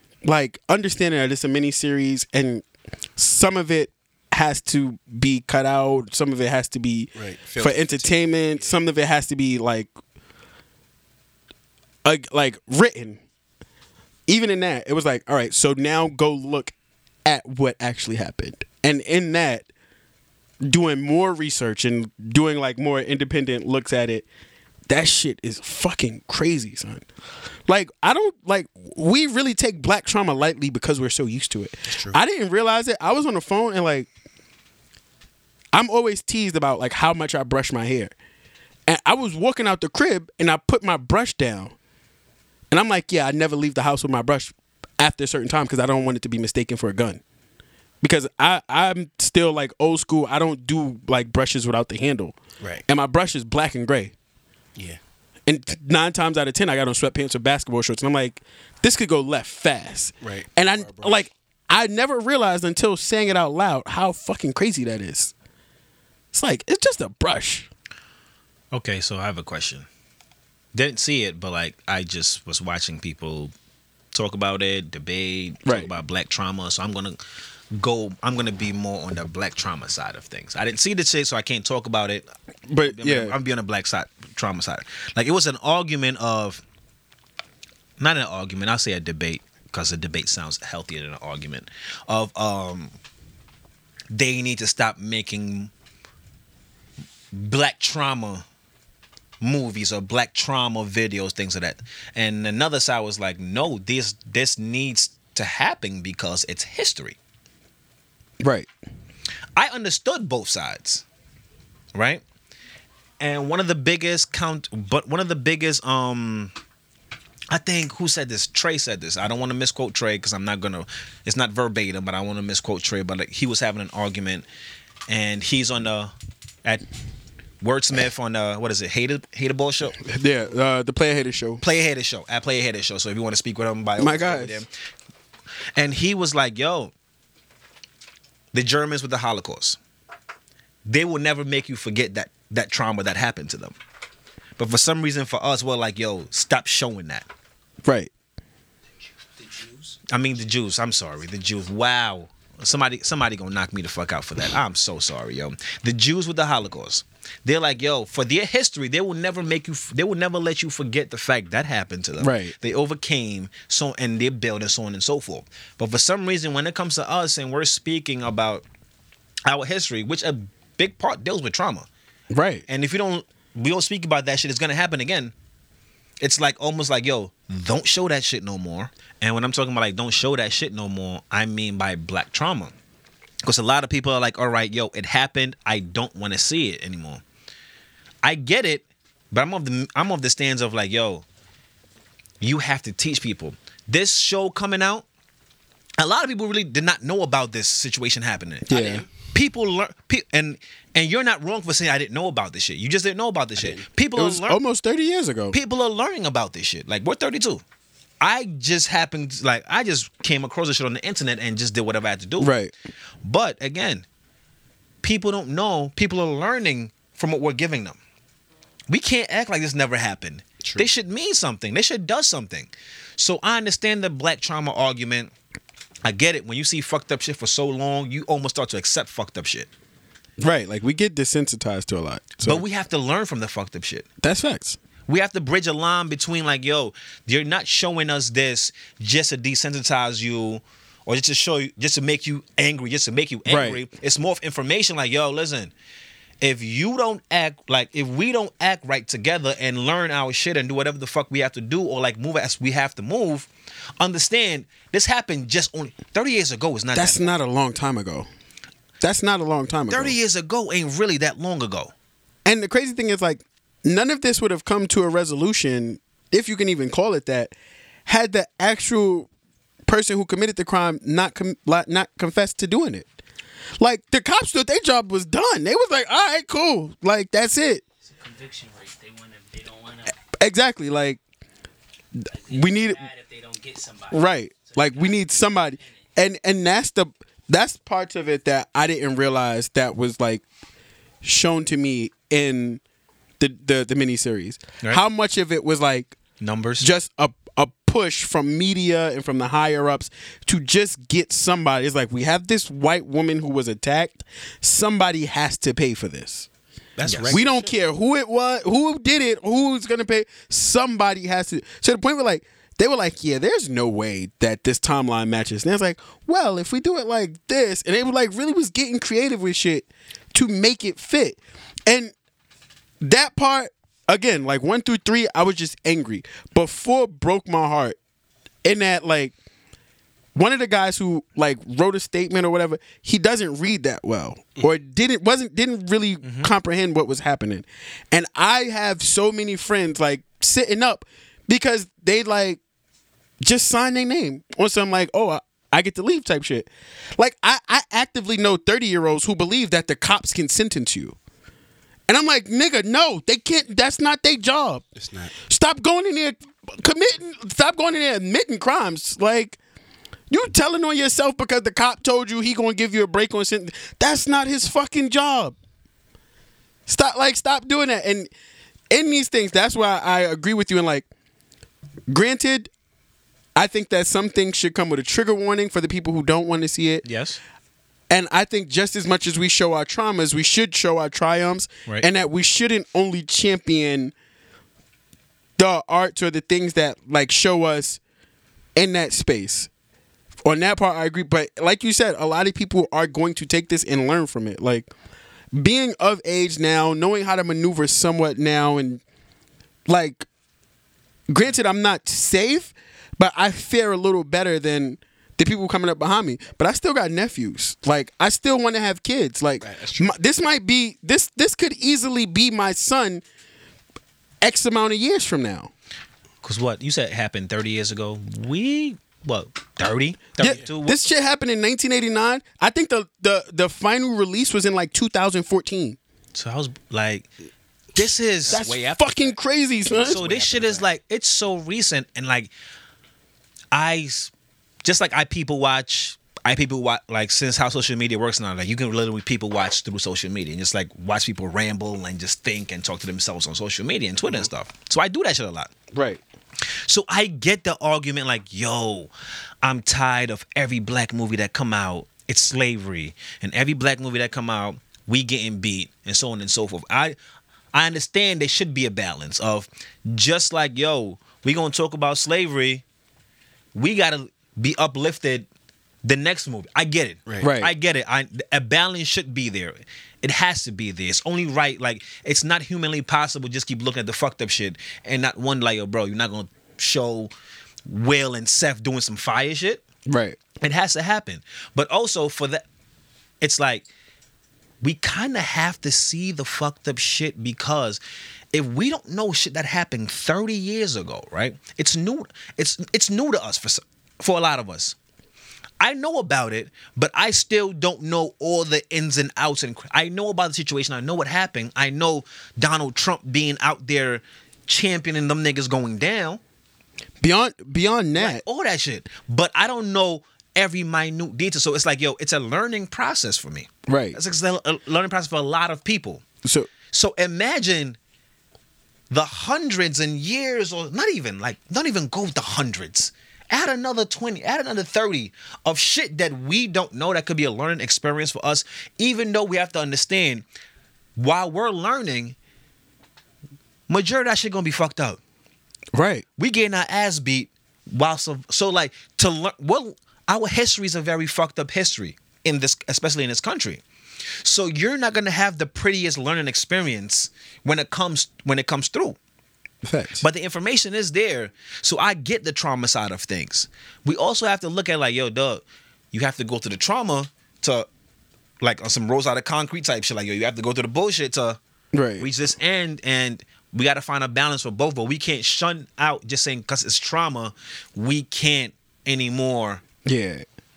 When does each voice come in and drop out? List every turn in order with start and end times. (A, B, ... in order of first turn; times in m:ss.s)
0:00.2-0:02.6 A
0:03.2-0:09.9 A
0:07.2-0:08.7 B
0:12.0-0:13.2 A
0:14.3-0:16.7 A
0:17.3-0:19.7 A
0:20.6-0:24.2 A
0:24.9-0:27.0 A
0:27.7-0:34.1 A
0:31.9-0:32.2 B
0:35.7-0:38.1 A
0:38.9-0:41.7 A
0:42.7-0:47.2 A
0:48.0-0:54.1 A
0:55.5-1:05.3 A
1:00.2-1:01.2 B
1:06.3-1:07.7 A
1:08.7-1:09.9 C
1:10.7-1:13.5 C
1:14.1-1:17.2 C
1:15.6-1:15.9 A
1:17.7-1:22.3 C
1:22.7-1:23.4 A
1:22.9-1:26.6 C
1:28.0-1:32.9 C
1:34.1-1:35.7 C
1:37.3-1:38.4 C
1:39.4-1:47.2 C
1:48.4-1:48.7 A
1:49.6-1:51.0 C
1:52.0-1:52.2 C
1:53.2-1:56.5 C
1:57.5-2:04.5 C
2:05.1-2:06.1 C
2:07.6-2:10.0 C
2:10.0-2:11.6 A
2:11.6-2:14.7 C
2:14.0-2:14.6 A
2:15.8-2:16.9 C
2:18.5-2:19.8 C
2:20.9-2:23.8 C
2:24.6-2:27.3 C
2:27.8-2:28.1 A
2:29.4-2:30.0 D
2:30.1-2:48.6 C
2:42.2-2:42.6 A
2:49.5-2:51.9 C
2:52.3-2:52.6 A
2:52.7-2:55.3 C
2:56.2-3:02.8 C
3:03.4-3:07.2 C
3:08.2-3:11.2 C
3:12.4-3:15.0 C
3:16.0-3:24.6 C
3:18.7-3:19.0 A
3:18.7-3:19.1 B
3:23.6-3:23.8 B
3:24.2-3:25.6 A
3:25.5-3:27.6 C
3:28.2-3:32.6 C
3:32.4-3:32.7 A
3:33.2-3:34.0 C
3:35.0-3:38.0 C
3:38.9-3:45.3 C
3:40.6-3:40.9 B
3:46.0-3:49.7 C
3:50.4-3:52.6 A
3:52.4-3:54.0 C
3:54.2-3:54.8 A
3:55.1-4:05.7 C
4:03.5-4:03.8 A
4:06.4-4:13.5 C
4:14.0-4:17.3 C
4:16.9-4:18.3 A
4:19.0-4:20.2 A
4:19.9-4:21.9 C
4:22.5-4:27.5 A
4:28.1-4:29.3 A
4:29.9-4:33.1 A
4:33.8-4:37.8 A
4:38.1-4:40.2 D
4:40.3-4:41.2 A
4:42.2-4:43.0 A
4:42.3-4:45.3 D
4:44.1-4:50.4 A
4:51.2-4:52.8 A
4:53.4-4:56.2 A
4:56.4-4:56.9 C
4:56.8-5:06.5 A
5:07.0-5:07.4 C
5:07.0-5:07.8 B
5:07.3-5:22.1 A
5:23.0-5:28.0 A
5:28.6-5:29.3 A
5:30.4-5:42.6 A
5:36.2-5:36.5 C
5:43.4-5:51.2 A
5:52.1-5:54.8 A
5:55.0-5:55.3 B
5:55.5-5:59.6 A
6:00.3-6:05.6 A
6:06.9-6:08.3 A
6:08.9-6:11.1 A
6:12.1-6:12.7 A
6:13.6-6:17.0 A
6:17.0-6:17.4 C
6:18.1-6:24.1 A
6:25.6-6:28.0 A
6:28.8-6:29.7 A
6:30.4-6:34.9 A
6:35.5-6:39.0 A
6:39.9-6:40.3 A
6:41.3-6:53.2 A
6:49.6-6:50.2 B
6:54.4-6:55.7 A
6:56.4-7:01.0 C
7:00.4-7:06.0 A
7:06.3-7:07.3 C
7:08.0-7:08.6 C
7:08.0-7:10.9 B
7:08.5-7:10.2 A
7:10.0-7:12.5 C
7:13.7-7:14.3 C
7:14.8-7:25.7 C
7:25.9-7:26.2 A
7:26.8-7:29.1 C
7:29.6-7:37.2 C
7:37.7-7:42.8 C
7:43.8-7:45.5 C
7:46.0-7:57.3 C
7:47.3-7:47.5 B
7:47.4-7:47.7 A
7:57.9-7:59.8 C
8:00.1-8:00.4 A
8:00.6-8:02.6 C
8:03.4-8:03.9 C
8:04.8-8:08.0 C
8:08.5-8:15.0 C
8:15.8-8:26.4 C
8:27.2-8:28.4 A
8:28.2-8:36.2 C
8:33.9-8:34.2 A
8:36.4-8:36.7 A
8:36.9-8:38.0 C
8:39.1-8:50.4 C
8:51.2-8:52.4 C
8:53.9-8:55.2 C
8:55.9-8:56.2 A
8:56.4-9:03.8 C
9:04.4-9:09.2 C
9:09.8-9:10.2 A
9:10.2-9:17.9 C
9:18.6-9:21.6 C
9:21.9-9:22.3 A
9:22.2-9:29.8 C
9:30.1-9:30.4 A